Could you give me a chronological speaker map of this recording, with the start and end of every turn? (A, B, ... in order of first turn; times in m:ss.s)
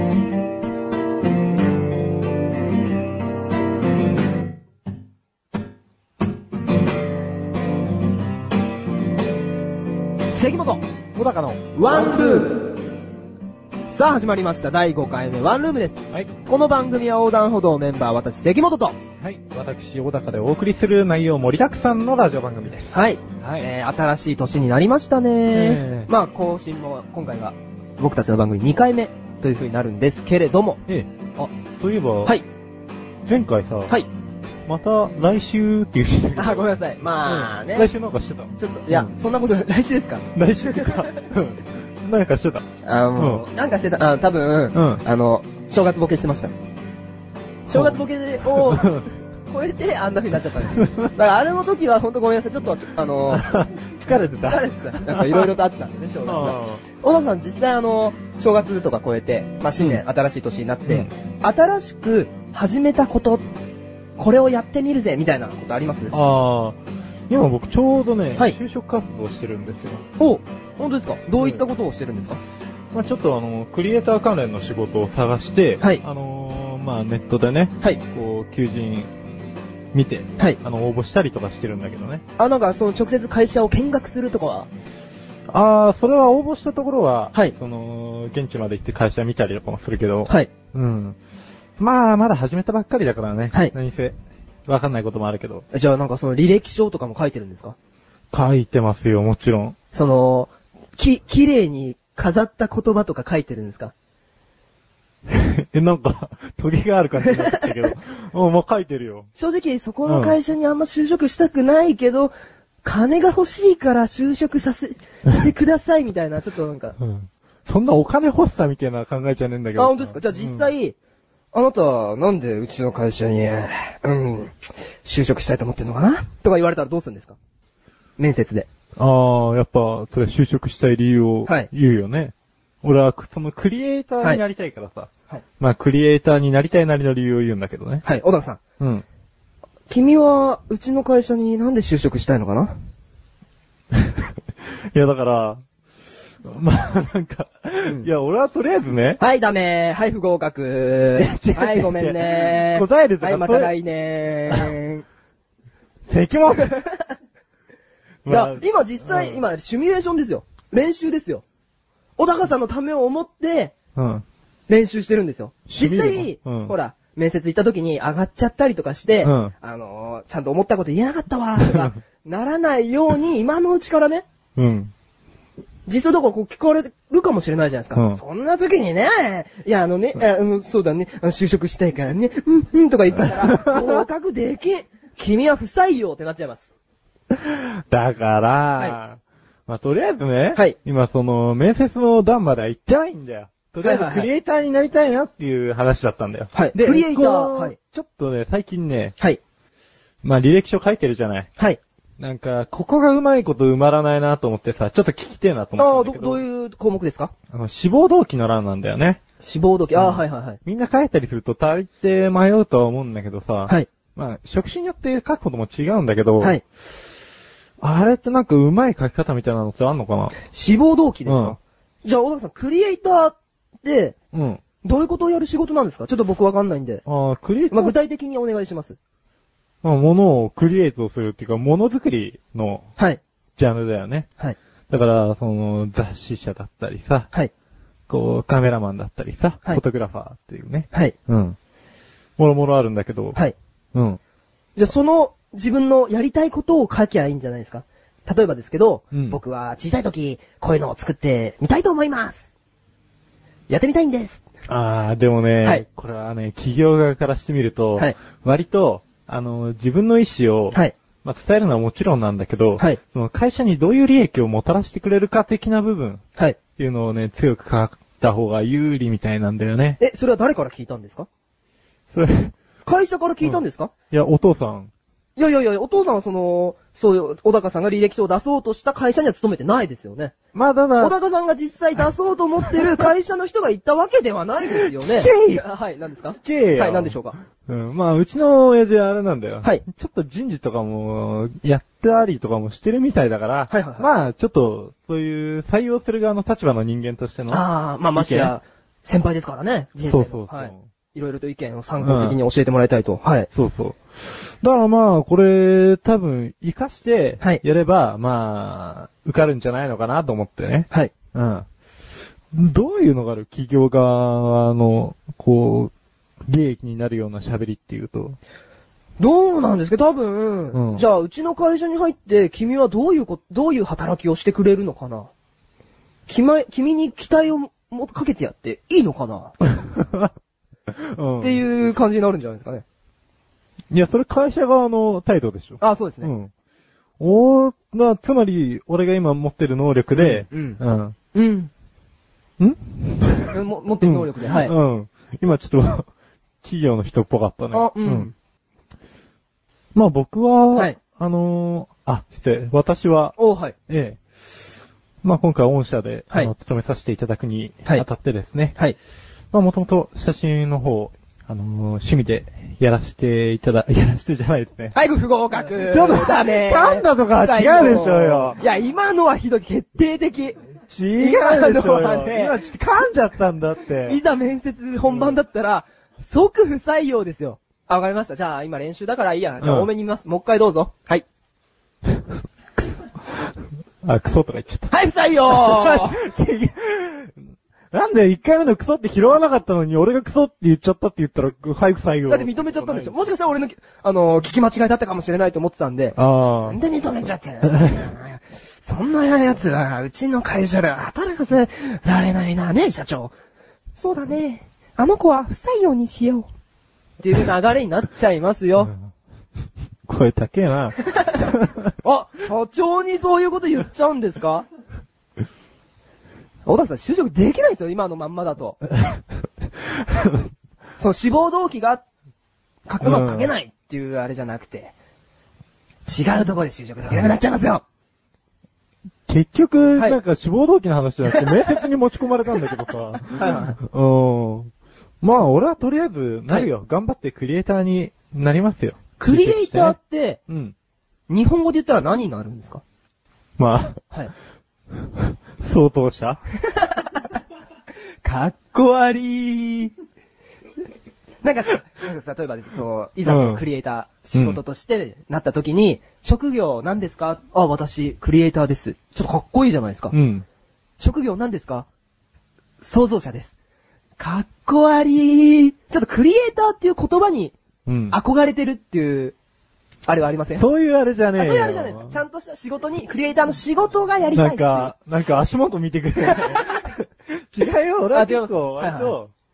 0:10.3-0:10.8 A
0:11.1-0:11.6 B
0:11.8-0:12.6 A
0:13.9-0:19.0 A
0:19.2-0:23.7 B
0:22.9-0:30.8 A
0:25.5-0:26.1 B
0:30.9-0:32.4 B
0:33.3-0:34.0 B
0:34.7-0:36.7 B
0:36.4-0:37.9 A
0:37.2-0:39.1 B
0:38.6-0:41.2 A
0:40.4-0:43.4 B
0:42.8-0:46.5 A
0:44.7-0:45.0 B
0:47.7-0:53.6 A
0:47.7-0:49.1 B
0:50.8-0:51.1 B
0:53.3-0:55.5 B
0:54.4-1:03.4 A
0:56.2-0:56.8 B
1:04.2-1:06.1 A
1:06.1-1:06.8 B
1:07.3-1:10.0 B
1:10.2-1:12.4 A
1:11.4-1:11.6 B
1:12.9-1:19.1 B
1:19.9-1:22.2 B
1:22.4-1:24.7 A
1:25.5-1:31.2 B
1:31.8-1:34.2 B
1:34.7-1:35.6 B
1:35.7-1:37.8 A
1:38.3-1:39.8 B
1:39.9-1:43.9 A
1:45.3-1:49.3 B
1:47.3-1:47.6 A
1:49.4-1:52.3 A
1:50.1-1:50.4 B
1:52.8-1:57.0 A
1:57.0-2:00.6 B
1:59.8-2:01.0 A
2:01.5-2:07.4 A
2:08.2-2:08.7 A
2:09.0-2:18.0 B
2:18.0-2:18.6 A
2:19.9-2:22.7 A
2:24.9-2:25.6 B
2:26.4-2:29.2 B
2:29.2-2:35.0 A
2:31.2-2:33.7 B
2:36.1-2:36.8 B
2:38.2-2:39.4 B
2:38.3-2:41.4 A
2:42.2-2:43.8 A
2:44.0-2:44.2 B
2:44.7-2:54.2 A
2:45.7-2:46.7 B
2:49.2-2:49.5 B
2:51.7-2:51.9 B
2:54.6-2:54.9 B
2:55.9-3:06.7 A
2:58.0-2:58.2 B
3:03.2-3:04.0 B
3:07.3-3:19.2 B
3:13.8-3:14.3 A
3:16.5-3:17.8 A
3:20.2-3:21.5 B
3:22.2-3:26.4 B
3:25.8-3:27.3 A
3:27.5-3:29.2 B
3:29.4-3:30.6 A
3:30.0-3:36.6 B
3:37.8-3:40.4 B
3:40.4-3:44.2 A
3:41.3-3:41.6 B
3:44.3-3:44.6 B
3:44.8-3:47.0 A
3:47.0-3:47.9 B
3:47.7-3:49.0 A
3:49.8-3:52.8 B
3:53.6-3:54.3 B
3:54.9-3:57.3 B
3:58.1-4:01.6 B
4:02.4-4:03.4 B
4:03.9-4:04.2 B
4:04.8-4:12.5 A
4:09.1-4:09.4 B
4:13.7-4:14.4 A
4:14.7-4:26.2 B
4:26.8-4:30.0 B
4:30.0-4:31.3 A
4:32.1-4:32.6 B
4:32.8-4:33.9 A
4:33.4-4:34.9 B
4:35.4-4:40.4 A
4:40.5-4:41.2 B
4:41.0-4:47.4 A
4:42.7-4:43.0 B
4:44.8-4:45.6 B
4:46.4-4:58.5 B
4:53.7-4:54.1 A
4:57.5-5:03.5 A
5:00.0-5:00.8 B
5:02.0-5:02.4 B
5:03.5-5:11.7 B
5:12.5-5:15.9 B
5:16.5-5:18.4 B
5:19.2-5:25.3 A
5:20.7-5:21.0 B
5:26.3-5:29.6 A
5:29.9-5:30.3 B
5:30.9-5:31.6 B
5:31.4-5:32.8 A
5:33.9-5:36.5 B
5:35.8-5:36.3 A
5:37.2-5:41.2 B
5:40.2-5:40.8 A
5:41.3-5:41.7 A
5:42.6-5:46.1 B
5:43.5-5:44.7 A
5:46.6-5:48.3 B
5:47.7-5:48.3 A
5:50.0-5:53.4 B
5:53.4-5:53.8 A
5:53.9-5:54.2 B
5:55.2-5:58.8 B
5:59.5-6:05.0 B
6:04.9-6:10.6 A
6:05.7-6:08.6 B
6:10.9-6:14.2 B
6:11.2-6:12.6 A
6:14.0-6:21.2 A
6:19.6-6:19.9 B
6:24.0-6:24.9 B
6:24.9-6:26.2 A
6:25.5-6:27.4 B
6:27.9-6:33.2 B
6:32.3-6:43.4 A
6:36.2-6:36.8 B
6:37.6-6:38.0 B
6:44.0-6:46.5 A
6:47.2-6:49.0 A
6:50.1-6:51.9 B
6:52.0-6:54.7 A
6:56.7-6:58.8 A
6:59.0-6:59.2 B
6:59.9-7:00.5 B
7:01.0-7:02.0 A
7:02.9-7:04.9 A
7:03.0-7:03.5 B
7:06.1-7:07.8 A
7:09.3-7:14.7 B
7:11.2-7:11.6 A
7:13.3-7:13.8 A
7:15.2-7:20.0 B
7:19.2-7:20.4 A
7:20.5-7:20.7 B
7:21.3-7:22.8 A
7:23.6-7:24.0 B
7:25.0-7:26.4 B
7:26.7-7:27.2 A
7:28.2-7:29.9 A
7:31.4-7:40.1 A
7:33.2-7:33.6 B
7:34.3-7:34.6 B
7:40.1-7:40.4 B
7:41.0-7:41.9 A
7:42.8-7:43.5 A
7:44.2-7:47.6 A
7:47.9-7:48.2 B
7:48.1-7:49.4 A
7:50.1-7:50.6 A
7:50.6-7:52.2 B
7:51.4-7:54.9 A
7:54.4-7:59.3 B
7:56.3-7:56.8 A
7:58.1-7:59.1 A